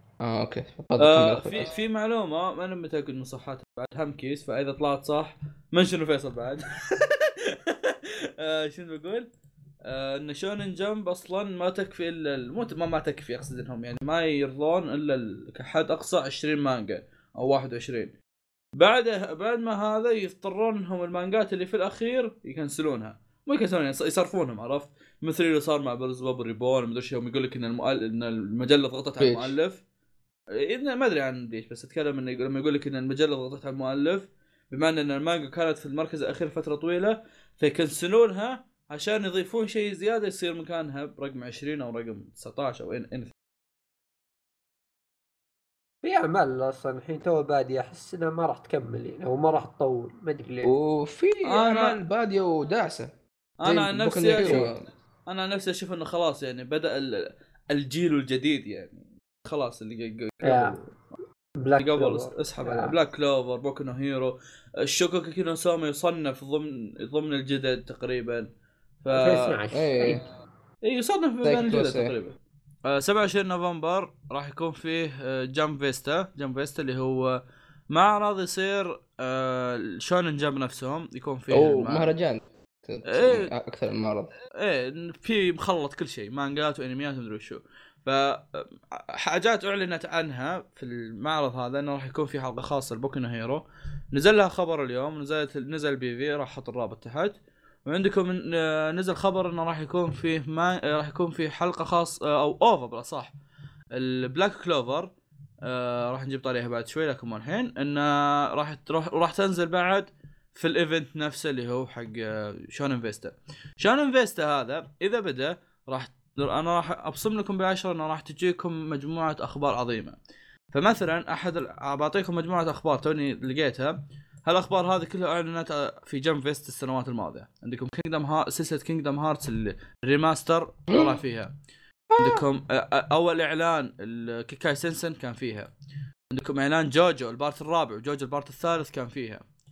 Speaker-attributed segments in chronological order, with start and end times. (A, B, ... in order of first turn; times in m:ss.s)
0:00.2-0:01.7 A
0:01.0-0:09.3 B
0:09.8-0:18.1 B
0:18.8-0:29.8 B
0:29.2-0:29.5 A
0:30.6-0:43.3 B
0:46.0-0:50.7 C
0:50.6-0:53.1 A
0:51.4-0:52.0 B
0:53.6-0:54.7 B
0:53.6-0:54.8 A
0:54.4-0:54.7 C
0:55.3-1:00.9 B
1:00.4-1:00.8 C
1:01.6-1:02.9 C
1:01.8-1:08.5 B
1:09.0-1:09.6 B
1:09.1-1:10.2 C
1:09.7-1:10.2 A
1:10.8-1:22.1 B
1:11.4-1:12.1 A
1:21.5-1:24.3 A
1:23.1-1:23.4 B
1:24.6-1:43.3 B
1:43.9-1:45.1 B
1:45.6-2:00.2 B
2:00.7-2:11.5 B
2:10.9-2:11.2 A
2:12.1-2:12.4 A
2:12.2-2:15.7 B
2:16.3-2:19.4 B